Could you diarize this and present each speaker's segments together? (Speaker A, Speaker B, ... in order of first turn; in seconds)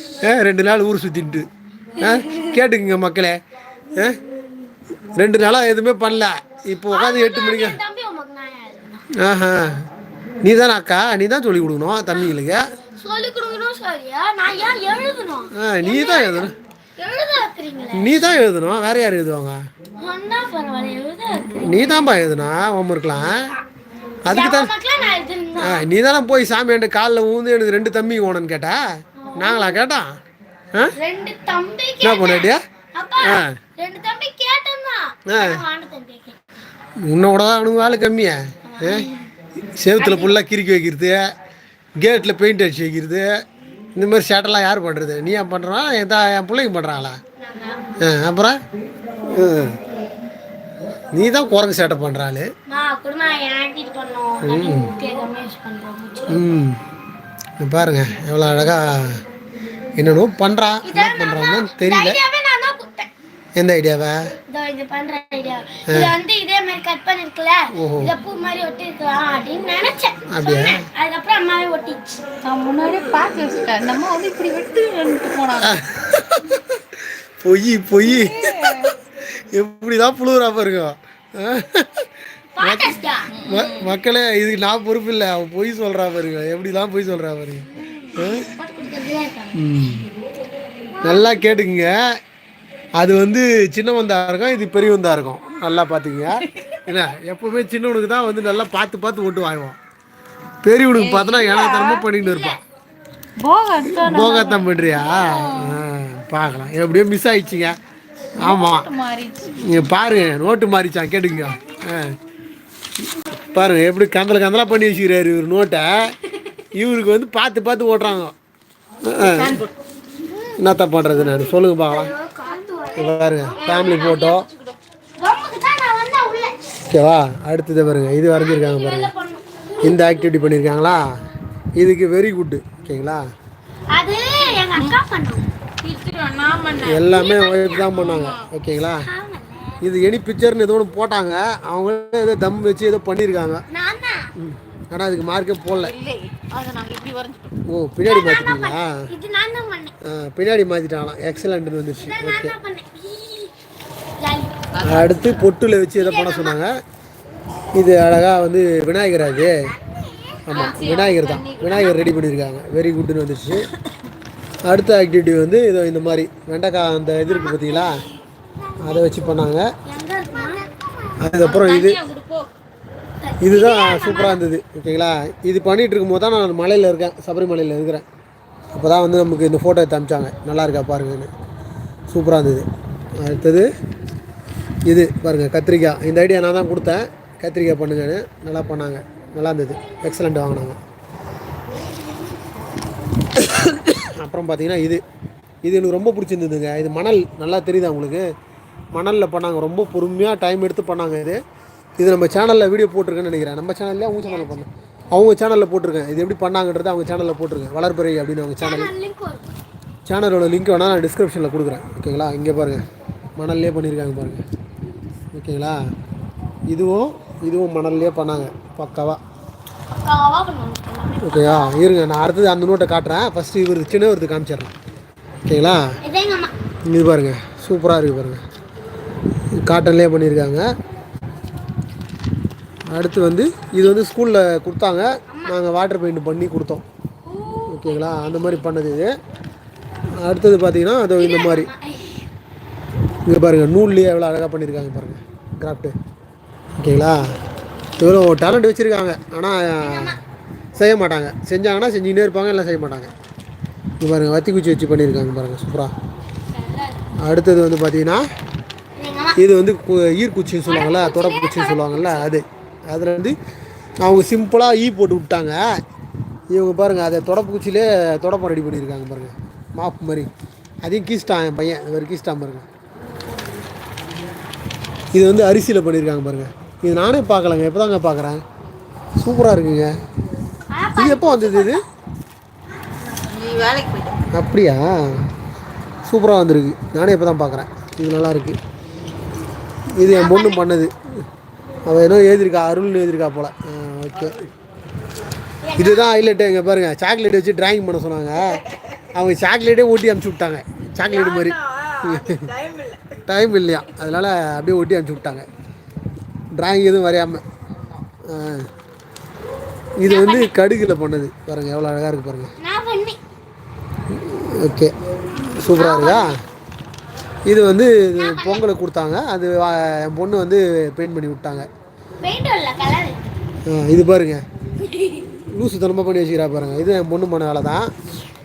Speaker A: 0.2-3.4, 3.9-4.2, 5.2-7.8, 9.2-9.9, 10.4-12.7, 15.6-16.5, 17.9-19.6, 21.6-23.5, 24.3-24.8, 25.6-28.8, 29.4-30.1, 32.0-32.6, 33.2-33.6, 35.3-35.6, 37.0-39.1, 39.8-41.2, 42.0-43.3, 44.0-47.2, 48.0-48.6, 49.3-49.8, 51.1-52.5, 54.4-54.9, 56.3-56.8, 57.6-59.2, 60.0-62.2, 63.6-64.2, 65.9-66.2, 67.8-68.2, 70.3-70.9, 75.6-82.1, 82.6-88.5, 89.5-90.1, 91.0-92.0, 93.0-99.8, 100.6-102.6, 103.9-107.8, 108.4-108.9, 109.5-112.2, 113.5-116.1, 116.7-118.3, 119.1-119.6, 120.6-122.1, 123.0-124.5, 126.9-129.1, 129.8-131.1, 131.8-133.2, 136.8-139.1, 139.8-143.6, 144.4-145.9, 147.7-149.1, 150.0-152.6, 154.8-156.7, 157.7-159.6, 160.5-163.7, 164.7-168.0, 168.8-169.7, 171.2-172.0, 173.4-178.1, 178.7-181.3, 182.1-183.7, 184.8-190.8, 193.3-195.0, 195.6-198.2, 198.9-201.4, 202.0-208.9, 210.1-212.8, 213.4-214.4, 215.3-215.8, 216.7-219.2, 221.2-224.7, 225.4-225.9, 226.8-228.4, 229.5-230.7, 232.9-236.8, 237.7-239.1, 240.2-241.7, 243.2-246.0, 246.8-247.3, 248.0-250.2, 250.8-253.1, 254.0-255.9, 257.2-258.2, 259.4-263.4, 264.0-265.6, 266.5-270.3, 270.8-272.7, 275.1-278.4, 279.2-279.9, 281.0-281.8, 284.3-285.3, 286.1-288.6, 290.0-291.0, 291.9-294.5, 295.8-298.6, 299.1-302.5, 303.3-305.5, 306.5-307.4, 308.3-308.7, 310.0-312.5, 314.1-314.9, 315.5-316.3, 317.5-321.7, 323.7-324.4, 325.3-327.9
Speaker B: 6.9-9.1, 12.9-16.5, 17.0-18.1, 20.0-22.1, 24.3-25.9, 29.2-29.8, 31.0-36.4, 38.7-39.3, 40.0-40.4, 47.4-48.0, 52.7-56.5, 60.8-63.1, 64.5-72.3, 82.6-83.4, 87.8-89.6, 91.1-91.4, 102.2-102.6, 111.5-111.8, 121.9-124.2, 125.2-126.6, 128.3-130.3, 133.9-135.5, 137.1-137.8, 138.9-139.8, 143.7-144.3, 148.1-149.9, 151.9-153.5, 154.2-154.7, 156.0-156.6, 159.8-160.4, 169.9-170.7, 173.2-174.4, 204.2-204.6, 208.6-209.5, 219.9-221.8, 226.0-226.5, 235.3-235.6, 237.3-238.7, 241.2-242.2, 249.8-250.2, 256.5-257.1, 259.0-259.4, 260.7-262.3, 280.7-281.8, 290.1-290.6, 295.6-296.1, 310.0-310.6, 312.6-313.2, 315.7-316.3, 318.2-318.6, 322.2-323.2, 324.8-325.4
Speaker C: 72.4-75.8, 78.1-78.9, 83.3-84.0, 96.4-96.8, 100.9-102.1, 103.4-105.8, 108.4-109.5, 119.2-119.7, 123.6-124.8, 134.4-135.0, 135.8-137.1, 137.8-138.5, 145.8-147.6, 154.8-155.4, 160.5-162.0, 171.4-172.5, 283.1-284.2, 301.1-303.2